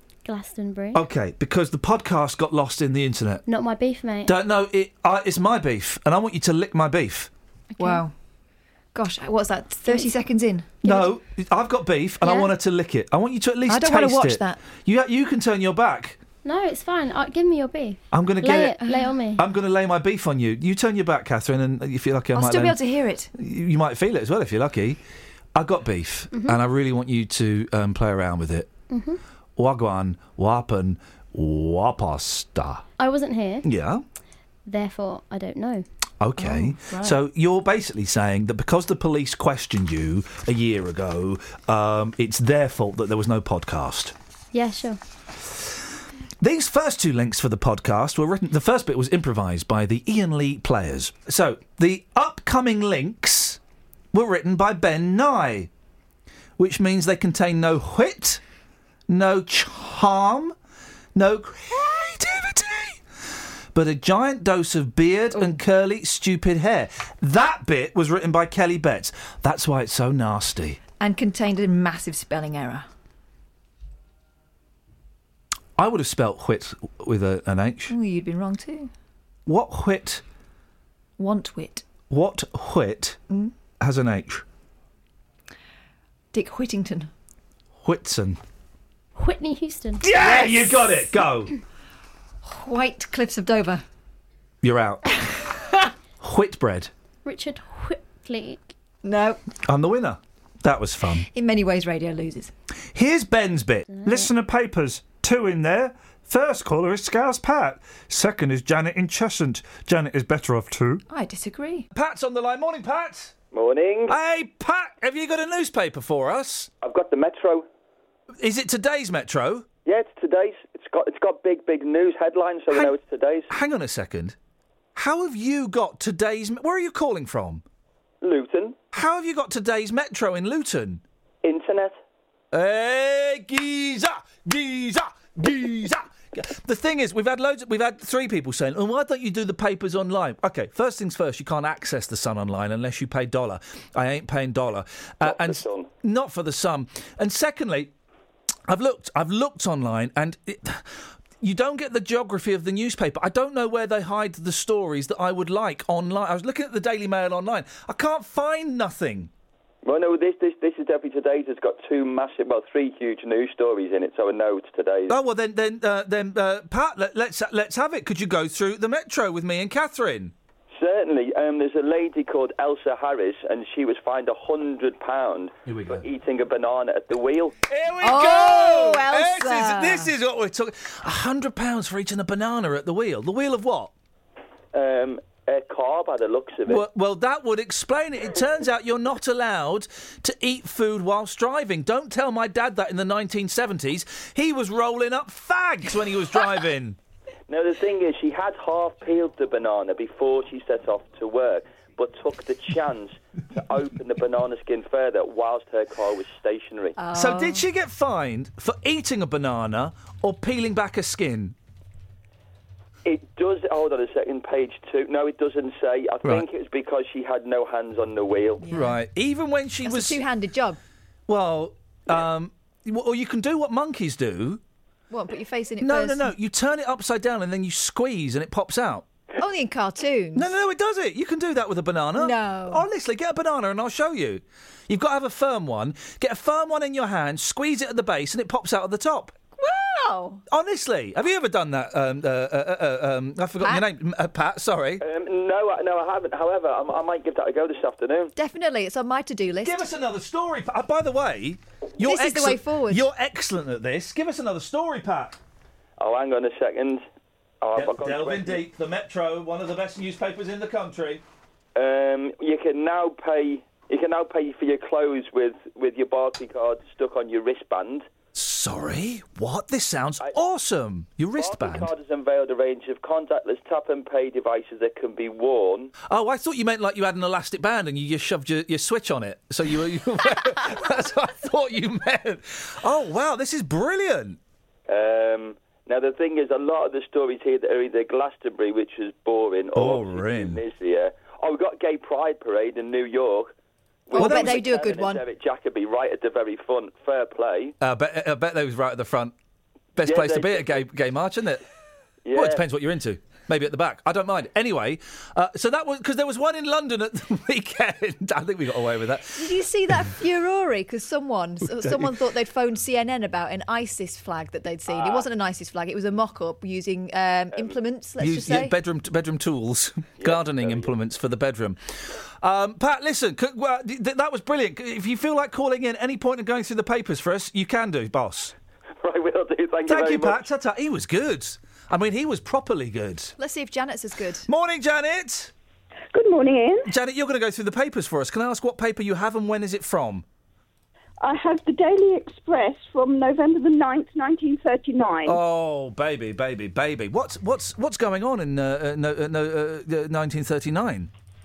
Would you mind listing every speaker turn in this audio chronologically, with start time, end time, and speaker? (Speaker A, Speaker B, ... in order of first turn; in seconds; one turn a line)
Speaker A: 0.2-1.1
Speaker B: 0.9-3.4
Speaker A: 3.5-4.4
Speaker B: 4.2-7.3
Speaker C: 7.7-8.1
Speaker C: 8.9-11.1
Speaker B: 10.8-16.2
Speaker C: 12.2-12.5
Speaker C: 13.7-14.6
Speaker A: 16.4-19.4
Speaker B: 18.1-18.8
Speaker C: 18.8-19.2
Speaker B: 19.4-22.8
Speaker C: 22.3-23.3
Speaker B: 23.4-25.0
Speaker B: 25.6-28.7
Speaker A: 26.3-26.6
Speaker A: 28.9-29.2
Speaker B: 29.6-32.8
Speaker A: 33.0-33.7
Speaker B: 33.6-34.0
Speaker A: 34.7-35.9
Speaker B: 36.2-44.1
Speaker C: 36.4-37.2
Speaker A: 44.5-45.0
Speaker B: 46.4-53.6
Speaker B: 54.1-55.7
Speaker B: 56.6-58.4
Speaker B: 59.1-60.5
Speaker B: 61.1-63.0
Speaker B: 63.7-70.8
Speaker C: 65.3-65.6
Speaker C: 71.0-72.9
Speaker B: 75.8-77.9
Speaker C: 77.9-78.9
Speaker B: 79.5-80.2
Speaker C: 81.2-81.9
Speaker B: 82.1-83.2
Speaker B: 83.8-84.4
Speaker C: 86.3-87.1
Speaker B: 87.8-88.4
Speaker A: 89.2-90.3
Speaker B: 90.0-91.5
Speaker C: 90.2-91.1
Speaker C: 92.4-93.8
Speaker B: 94.6-95.0
Speaker B: 96.2-96.9
Speaker A: 97.2-98.7
Speaker C: 99.0-99.4
Speaker B: 99.7-101.2
Speaker C: 101.2-102.5
Speaker B: 102.9-111.0
Speaker A: 103.9-104.3
Speaker C: 111.1-111.9
Speaker B: 111.9-113.3
Speaker D: 113.5-114.2
Speaker B: 114.1-116.7
Speaker D: 116.8-117.7
Speaker B: 118.4-119.7
Speaker D: 119.9-123.5
Speaker B: 123.5-124.4
Speaker B: 125.0-127.6
Speaker D: 128.2-128.8
Speaker B: 128.9-131.0
Speaker D: 131.4-132.0
Speaker B: 132.5-147.9
Speaker D: 145.2-145.9
Speaker B: 148.7-159.3
Speaker D: 159.8-165.2
Speaker B: 165.1-170.3
Speaker D: 170.8-177.6
Speaker B: 175.7-176.0
Speaker B: 177.7-183.9
Speaker C: 178.0-180.1
Speaker D: 184.7-186.8
Speaker B: 186.7-197.0
Speaker D: 197.5-207.0
Speaker C: 207.0-207.7
Speaker B: 207.1-211.6
Speaker D: 213.1-218.7
Speaker C: 218.6-219.0
Speaker B: 218.7-220.2
Speaker C: 219.8-220.8
Speaker B: 221.3-224.6
Speaker C: 225.1-226.3
Speaker B: 225.8-229.1
Speaker C: 229.4-230.5
Speaker B: 230.3-239.3
Speaker C: 232.2-232.8
Speaker C: 239.6-240.4
Speaker B: 240.5-245.0
Speaker C: 243.6-243.8
Speaker D: 245.0-248.3
Speaker C: 248.4-249.9
Speaker B: 249.6-255.4
Speaker C: 252.0-253.1
Speaker D: 256.0-257.0
Speaker D: 257.6-258.6
Speaker B: 257.8-261.2
Speaker D: 261.8-268.1
Speaker B: 268.3-271.9
Speaker D: 271.3-275.9
Speaker B: 276.1-284.4
Speaker D: 284.9-293.5
Speaker B: 289.8-290.6
Speaker D: 294.1-297.8
Speaker C: 294.1-295.2
Speaker B: 294.2-294.6
Speaker B: 297.8-299.3
Speaker B: 299.9-301.6
Speaker D: 300.1-300.8
Speaker D: 302.2-302.6
Speaker B: 302.3-309.4
Speaker C: 309.4-318.8
Speaker B: 311.8-312.1
Speaker D: 314.9-315.2
Speaker B: 318.2-328.5
Speaker D: 320.2-320.9
Speaker D: 329.0-330.5
Speaker B: 329.9-333.3
Speaker C: 333.4-334.4
Speaker B: 334.4-335.5
Speaker E: 336.1-336.9
Speaker B: 336.9-340.2
Speaker E: 341.2-345.4
Speaker B: 345.2-351.1